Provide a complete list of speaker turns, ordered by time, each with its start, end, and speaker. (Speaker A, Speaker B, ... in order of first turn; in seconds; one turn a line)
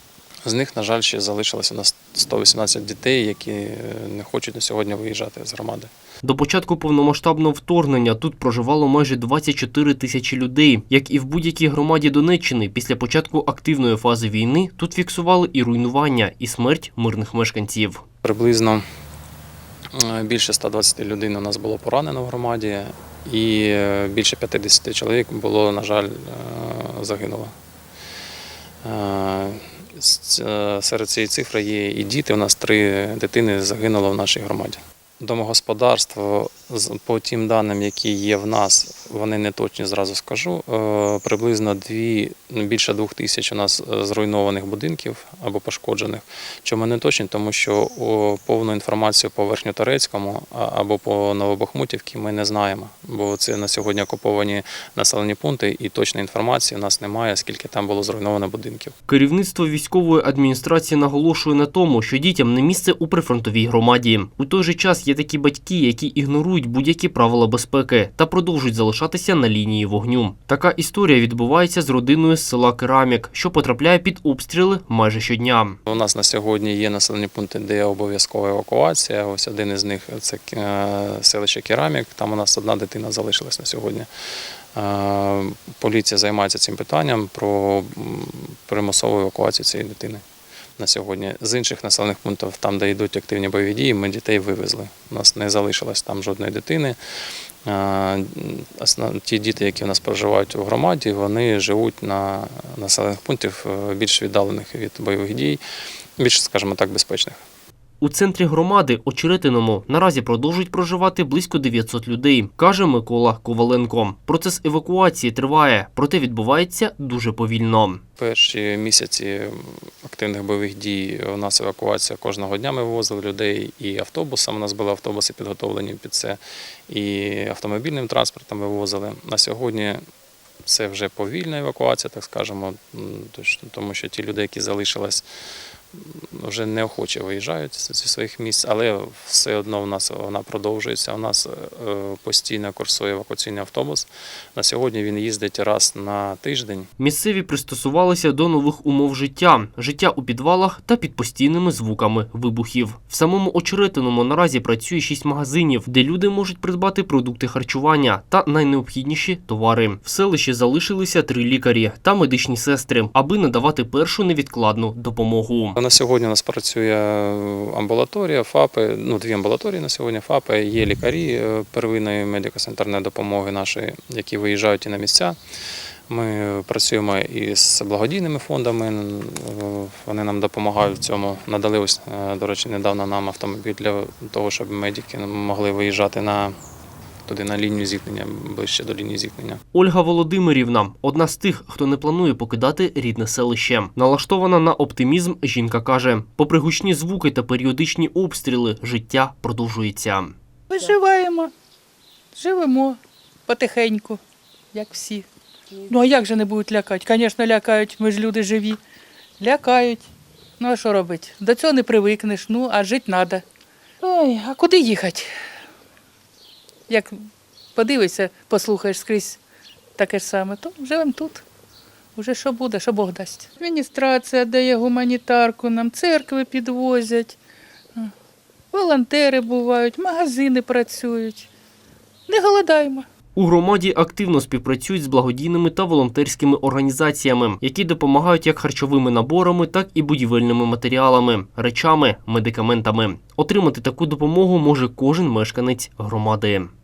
Speaker A: 0.5-5.9
Speaker B: 6.2-18.0
Speaker A: 18.2-18.8
Speaker A: 19.9-27.5
Speaker A: 28.8-58.9
Speaker B: 59.1-75.8
Speaker A: 75.9-84.1
Speaker A: 84.8-90.2
Speaker A: 90.8-97.0
Speaker A: 97.7-105.6
Speaker A: 106.2-107.4
Speaker B: 108.0-118.0
Speaker A: 118.2-130.0
Speaker A: 130.7-135.2
Speaker A: 135.9-146.9
Speaker B: 147.0-165.8
Speaker A: 165.8-175.4
Speaker A: 176.1-186.5
Speaker A: 187.3-189.6
Speaker B: 189.7-200.3
Speaker C: 200.7-201.5
Speaker C: 202.3-204.2
Speaker C: 204.7-205.3
Speaker C: 205.9-208.8
Speaker C: 209.4-210.1
Speaker C: 210.6-213.4
Speaker C: 214.0-215.3
Speaker C: 216.9-217.1
Speaker C: 217.8-219.4
Speaker C: 220.0-221.4
Speaker C: 222.2-227.4
Speaker C: 228.7-231.5
Speaker C: 232.3-233.1
Speaker B: 233.4-246.7